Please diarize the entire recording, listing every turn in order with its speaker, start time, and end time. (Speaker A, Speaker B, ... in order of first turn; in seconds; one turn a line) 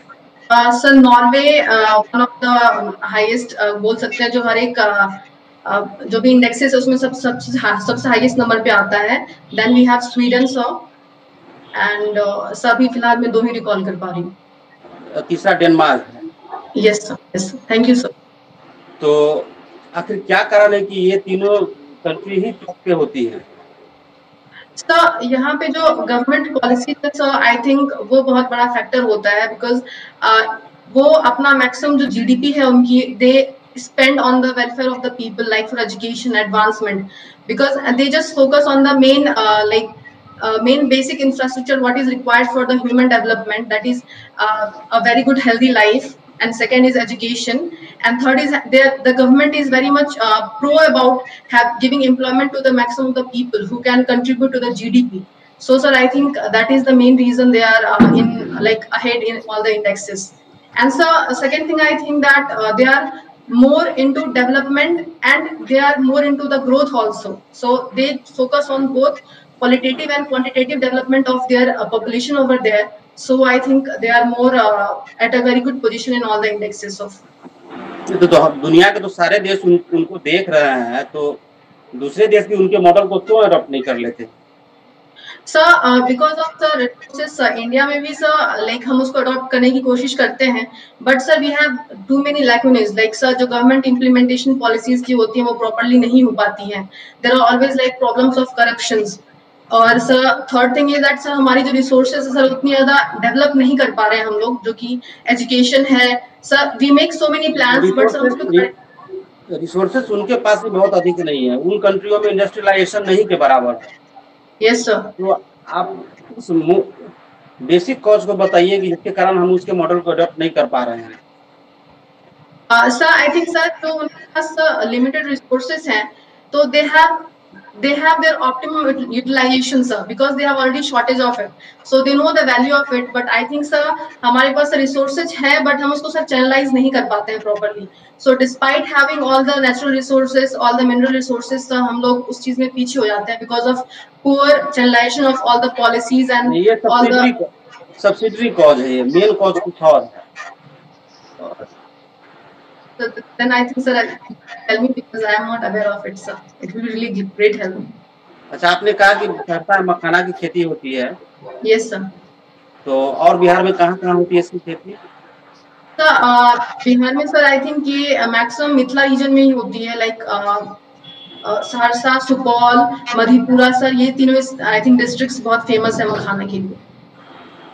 Speaker A: 0.5-10.9
Speaker A: 11.7-14.3
Speaker B: 15.1-16.2
Speaker A: 16.7-18.1
Speaker B: 19.0-23.4
Speaker A: 24.8-77.2
Speaker B: 78.1-81.4
Speaker B: 81.9-84.3
Speaker A: 85.5-108.7
Speaker B: 107.7-108.7
Speaker B: 109.5-113.9
Speaker A: 114.6-115.1
Speaker B: 115.2-117.1
Speaker B: 117.6-121.2
Speaker A: 122.7-147.3
Speaker B: 146.4-150.2
Speaker A: 151.4-151.7
Speaker A: 153.0-157.9
Speaker B: 158.5-161.1
Speaker A: 161.6-162.1
Speaker B: 162.8-165.0
Speaker A: 166.0-170.8
Speaker A: 171.4-176.8